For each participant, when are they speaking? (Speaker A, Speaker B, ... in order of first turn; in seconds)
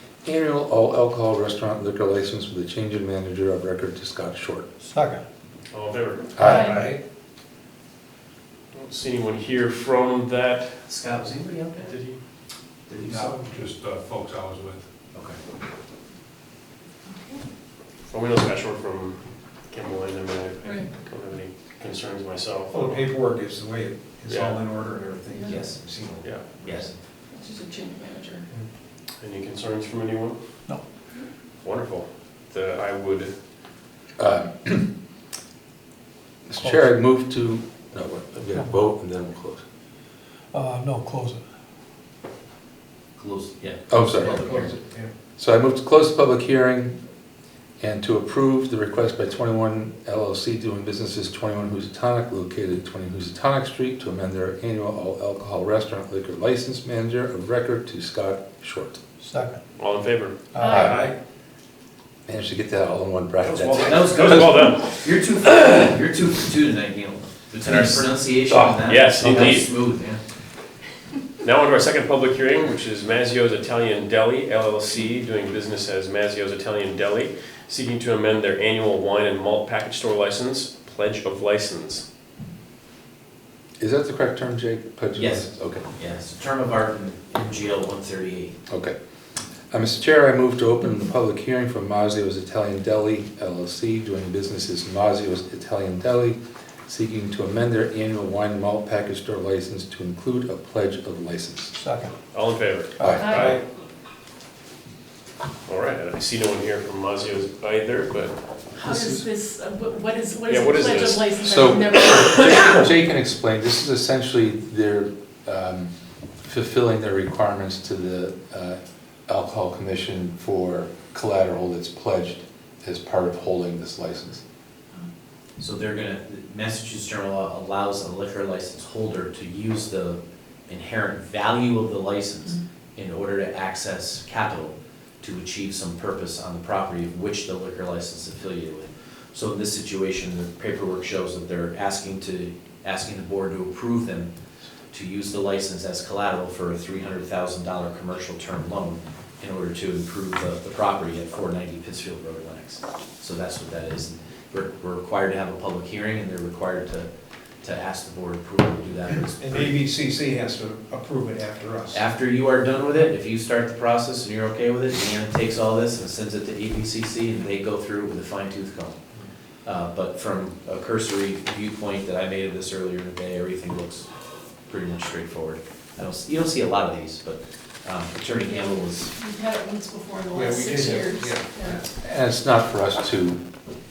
Speaker A: 0.2-4.7, 6.4-6.9, 13.8-14.8, 34.2-34.9, 36.5-39.6, 43.9-44.4, 45.4-47.0, 47.8-59.0, 60.6-61.1, 62.3-64.5, 67.7-69.6, 83.8-85.9, 88.7-89.0, 89.7-101.8, 103.0-103.3, 108.8-109.3, 111.4-115.9, 116.4-124.4, 182.0-183.4
Speaker B: 4.8-5.2, 6.4-6.9, 13.1-14.8, 40.5-41.4, 59.2-59.6, 60.5-61.1, 101.8-102.1, 103.0-103.6
Speaker C: 5.7-6.4, 8.7-10.8, 11.8-12.2, 18.1-23.0, 24.3-24.6, 26.2-26.8, 29.2-30.4, 31.6-33.3, 59.8-61.1, 63.4-65.0, 68.8-69.7, 71.4-82.0, 102.3-103.6, 105.7-108.4, 110.5-111.4
Speaker D: 6.4-6.8, 17.1-17.4, 20.6-20.9, 27.3-28.5, 60.6-61.0, 103.2-103.5, 108.8-112.9, 178.4-181.8
Speaker E: 6.6-7.0, 22.7-26.9, 44.0-45.1, 159.4-162.0, 180.3-181.9
Speaker F: 10.9-12.0, 12.9-13.4, 15.1-15.4, 25.5-25.8, 26.6-26.9, 43.2-44.7, 63.8-70.2, 85.2-88.6, 125.6-144.3, 144.9-157.1, 157.6-159.8, 161.9-169.0, 169.7-174.1, 174.7-179.1